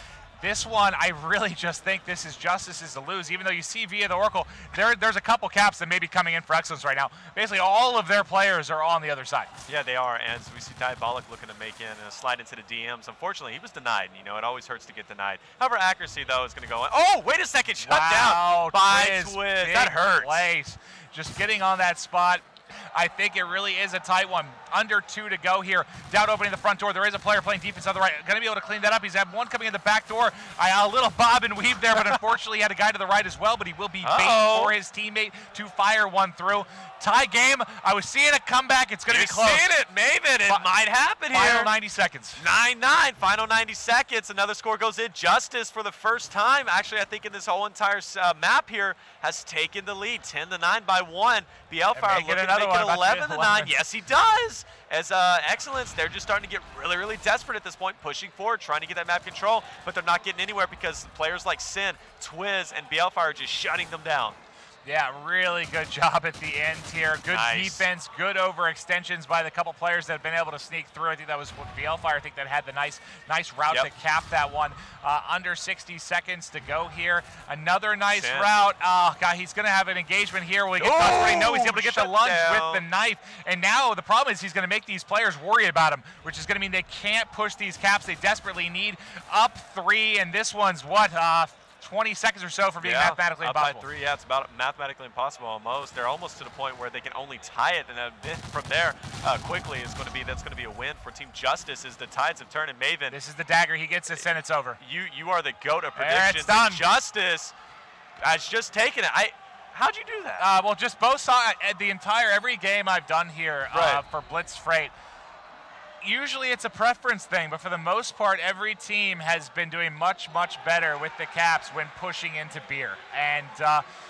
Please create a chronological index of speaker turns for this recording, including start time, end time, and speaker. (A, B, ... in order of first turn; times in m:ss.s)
0:00.4-0:09.5 A
0:09.7-0:20.5 B
0:17.9-0:39.7 A
0:31.9-0:32.3 B
0:34.0-0:34.8 B
0:39.1-0:41.7 B
0:41.3-0:42.4 A
0:42.4-1:04.4 B
0:51.9-0:53.8 A
1:04.8-1:33.8 A
1:07.3-1:07.9 B
1:18.1-1:18.5 B
1:20.8-1:22.8 B
1:32.8-1:43.2 B
1:43.1-1:44.8 A
1:44.1-1:47.5 B
1:46.0-1:46.8 A
1:48.2-1:50.5 B
1:50.4-1:54.9 A
1:53.7-1:54.0 B
1:56.0-2:03.8 A